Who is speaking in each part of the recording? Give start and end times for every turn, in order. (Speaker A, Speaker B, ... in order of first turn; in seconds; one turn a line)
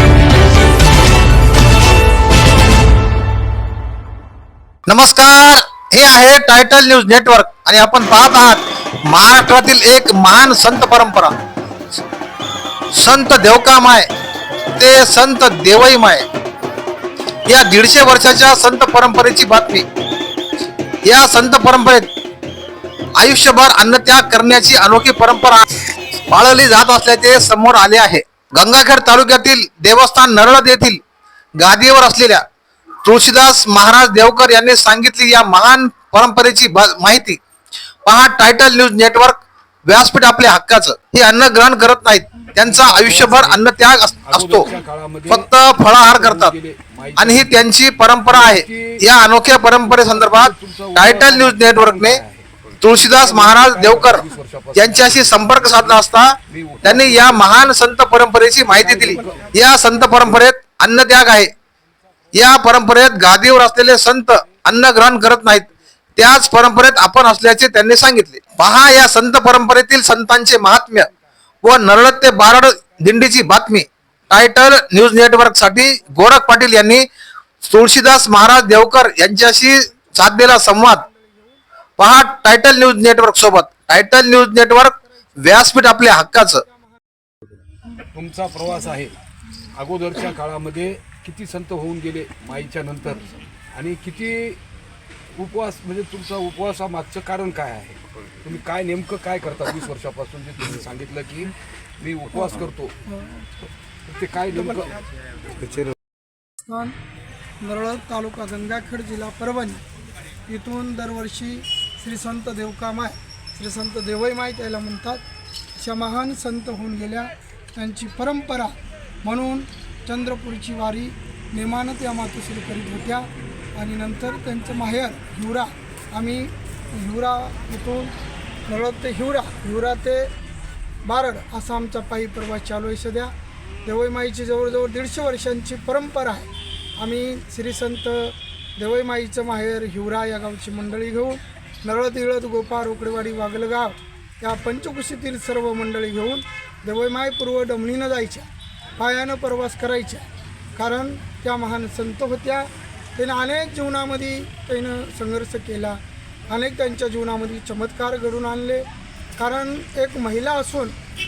Speaker A: 4.9-11.3
Speaker A: 12.9-14.1
Speaker A: 14.8-16.2
Speaker A: 17.4-19.8
Speaker A: 21.0-22.1
Speaker A: 23.2-25.6
Speaker A: 26.3-31.0
Speaker A: 31.6-32.4
Speaker A: 33.0-37.4
Speaker A: 38.0-44.7
Speaker B: 42.5-47.6
Speaker A: 45.3-46.5
Speaker A: 47.2-52.2
Speaker B: 48.3-49.0
Speaker B: 49.7-57.8
Speaker A: 52.8-61.5
Speaker B: 58.7-60.0
Speaker A: 62.3-71.1
Speaker A: 71.6-77.0
Speaker A: 77.6-81.0
Speaker A: 82.0-86.6
Speaker B: 88.1-89.1
Speaker B: 89.7-94.6
Speaker C: 93.0-93.5
Speaker B: 95.3-103.0
Speaker C: 102.3-103.7
Speaker B: 104.0-105.0
Speaker C: 106.7-107.0
Speaker C: 107.6-109.8
Speaker C: 110.5-115.2
Speaker C: 115.8-128.1
Speaker C: 128.7-130.3
Speaker C: 131.0-133.3
Speaker C: 133.8-156.0
Speaker C: 156.5-160.9